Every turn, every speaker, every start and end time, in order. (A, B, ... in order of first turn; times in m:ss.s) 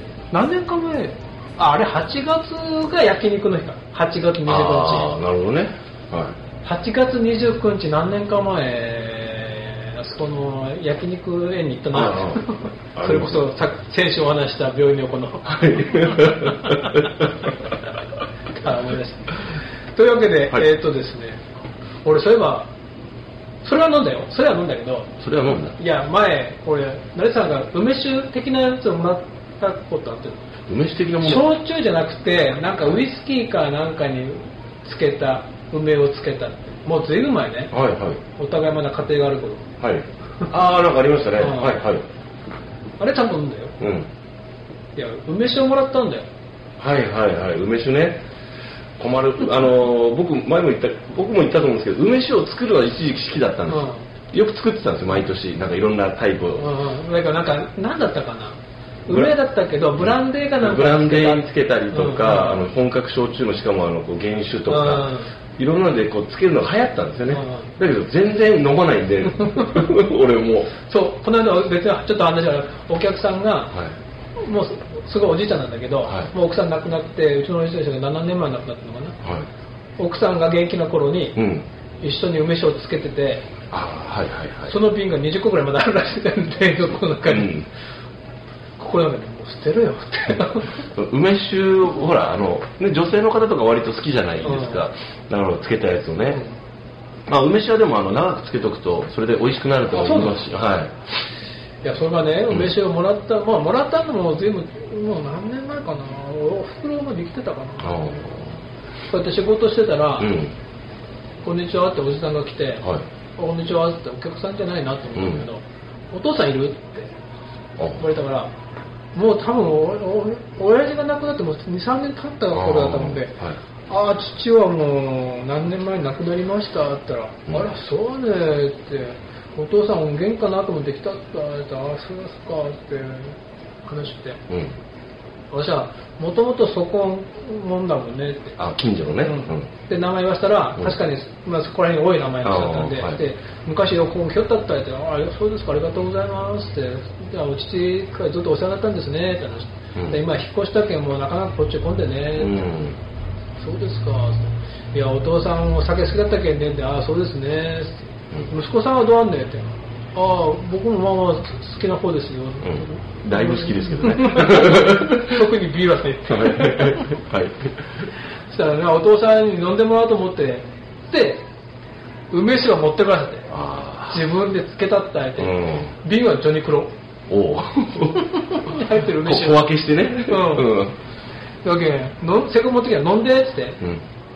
0:00.3-0:05.2 A
0:04.4-0:06.4 B
0:06.6-0:16.3 A
0:11.9-0:12.4 B
0:13.0-0:13.5 B
0:15.5-0:17.5 B
0:18.6-0:19.4 A
0:19.9-0:21.4 A
0:22.0-0:22.7 A
0:23.6-0:25.1 A
0:25.2-0:25.8 B
0:25.8-0:30.5 A
0:30.7-0:31.5 B
0:31.2-0:37.7 A
0:37.7-0:38.2 B
0:38.4-0:39.7 A
0:39.8-0:42.0 B
0:41.4-0:41.8 A
0:43.0-0:43.8 A
0:43.8-0:44.1 B
0:44.9-0:46.3 A
0:46.8-0:48.2 B
0:49.0-0:56.7 B
0:53.7-0:54.0 A
0:56.6-1:02.6 A
0:59.1-0:59.3 B
1:00.0-1:10.7 B
1:04.7-1:05.3 A
1:07.3-1:07.7 A
1:10.8-1:13.8 A
1:14.4-1:19.2 A
1:16.0-1:16.3 B
1:19.2-1:19.5 B
1:20.0-1:21.4 A
1:21.4-1:21.6 B
1:22.0-1:23.5 A
1:23.7-1:24.8 B
1:24.7-1:27.5 A
1:27.2-1:27.7 B
1:28.8-1:30.8 A
1:30.9-1:36.4 B
1:34.4-1:34.8 A
1:37.3-1:40.9 B
1:39.9-1:40.4 A
1:41.8-1:48.0 A
1:47.8-1:48.6 B
1:49.1-1:50.4 A
1:50.2-1:50.5 B
1:51.4-1:57.1 A
1:55.1-1:55.5 B
1:57.8-1:58.0 B
1:58.0-1:58.5 A
1:59.1-2:03.4 A
2:02.5-2:03.6 B
2:03.9-2:14.4 A
2:14.5-2:14.8 B
2:15.5-2:18.6 A
2:18.6-2:19.7 B
2:19.2-2:32.7 A
2:22.4-2:23.2 B
2:32.4-2:33.0 B
2:33.6-2:47.2 A
2:42.6-2:45.4 B
2:46.2-2:47.7 B
2:48.5-2:51.4 A
2:52.3-2:53.5 A
2:53.5-2:54.2 B
2:54.1-2:56.9 A
2:55.4-2:55.9 B
2:57.3-3:00.9 B
2:58.2-2:59.6 A
3:00.2-3:00.7 A
3:01.6-3:03.8 A